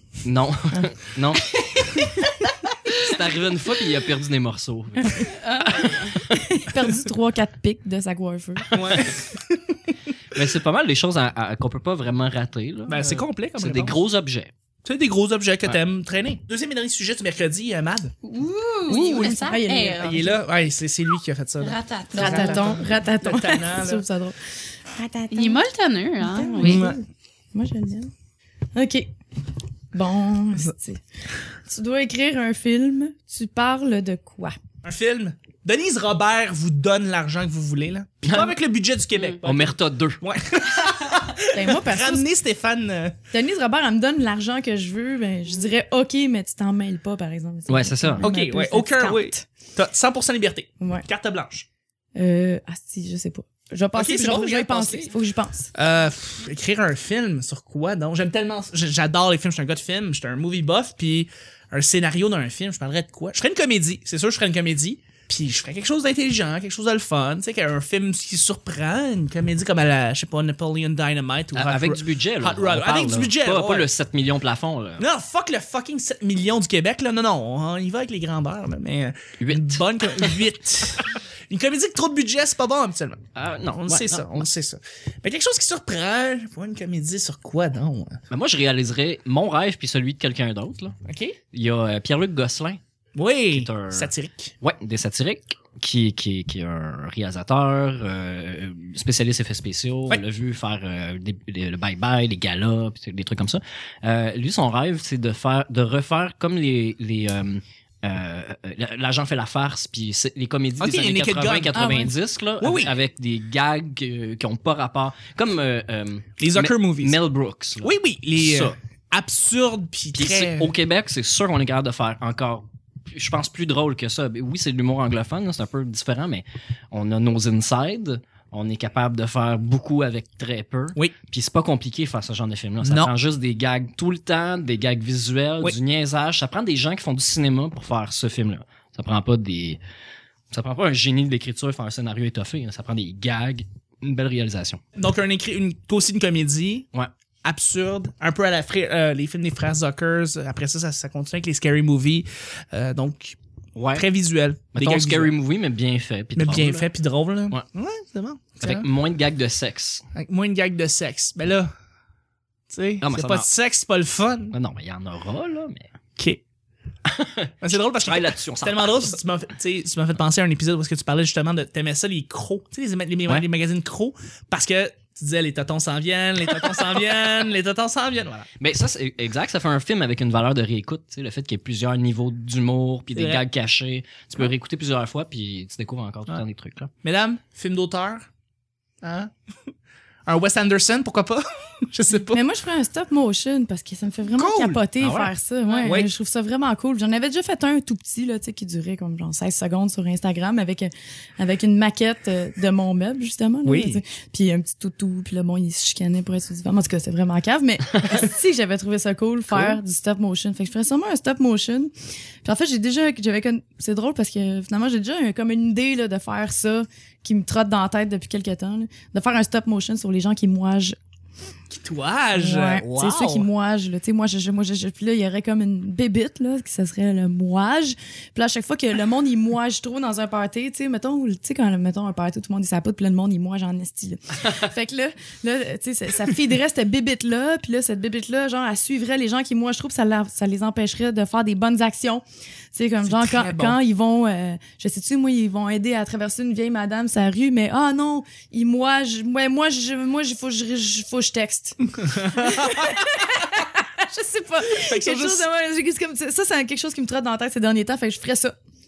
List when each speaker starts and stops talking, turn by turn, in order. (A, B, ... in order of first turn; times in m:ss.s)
0:00.2-0:01.7 A
0:01.8-0:02.3 B
0:02.9-0:06.4 A
0:05.0-0:05.3 B
0:05.3-0:06.2 C
0:06.3-0:08.8 B
0:08.7-0:09.5 D
0:08.7-0:09.1 A
0:10.3-0:14.5 A
0:12.9-0:14.0 D
0:14.8-0:18.1 D
0:18.2-0:20.2 C
0:18.9-0:19.5 D
0:18.9-0:20.4 B
0:20.0-0:24.0 D
0:21.6-0:22.8 C
0:22.1-0:24.4 B
0:24.9-0:25.6 B
0:25.3-0:26.9 C
0:26.2-0:28.1 B
0:26.6-0:27.0 D
0:28.7-0:29.1 B
0:29.9-0:31.0 B
0:31.6-0:34.6 B
0:34.8-0:43.2 D
0:38.2-0:38.5 A
0:39.4-0:40.2 A
0:41.5-0:42.3 B
0:43.3-0:49.4 B
0:47.7-0:48.3 A
0:48.2-0:51.7 D
0:50.8-0:51.0 B
0:52.2-0:55.7 B
0:53.9-0:55.1 D
0:55.7-1:13.9 D
1:11.5-1:15.0 A
1:15.0-1:23.2 D
1:19.4-1:20.4 A
1:23.3-1:24.4 A
1:23.8-1:28.2 D
1:28.3-1:30.9 A
1:31.0-1:31.4 D
1:31.5-1:32.8 A
1:33.1-1:34.5 D
1:33.5-1:34.1 A
1:34.6-1:58.8 A
1:50.8-1:52.0 D
1:51.7-1:52.1 B
1:52.6-1:53.0 D
1:56.4-1:57.2 D
1:57.8-2:00.7 D
2:00.2-2:19.8 A
2:12.8-2:13.1 D
2:20.5-2:24.8 A
2:25.0-2:26.9 D
2:27.4-2:33.4 D
2:33.7-2:34.0 A
2:33.9-2:35.3 D
2:34.7-2:36.8 A
2:36.4-2:38.9 D
2:38.6-2:40.0 A
2:40.1-2:41.7 D
2:42.7-2:44.5 D
2:43.0-2:43.4 A
2:44.5-2:45.9 A
2:47.0-2:49.1 A
2:47.6-2:58.5 D
2:58.6-3:06.9 A
3:03.1-3:03.4 D
3:07.0-3:08.3 D
3:09.0-3:09.3 D
3:10.2-3:12.4 D
3:12.3-3:31.9 B
3:14.4-3:14.8 D
3:15.0-3:15.3 A
3:15.8-3:16.1 D
3:23.6-3:24.0 D
3:32.4-3:41.0 B
3:41.7-3:43.5 D
3:42.3-4:02.2 B
4:02.7-4:18.6 B
4:03.0-4:03.8 D
4:12.0-4:13.0 D
4:14.7-4:15.4 D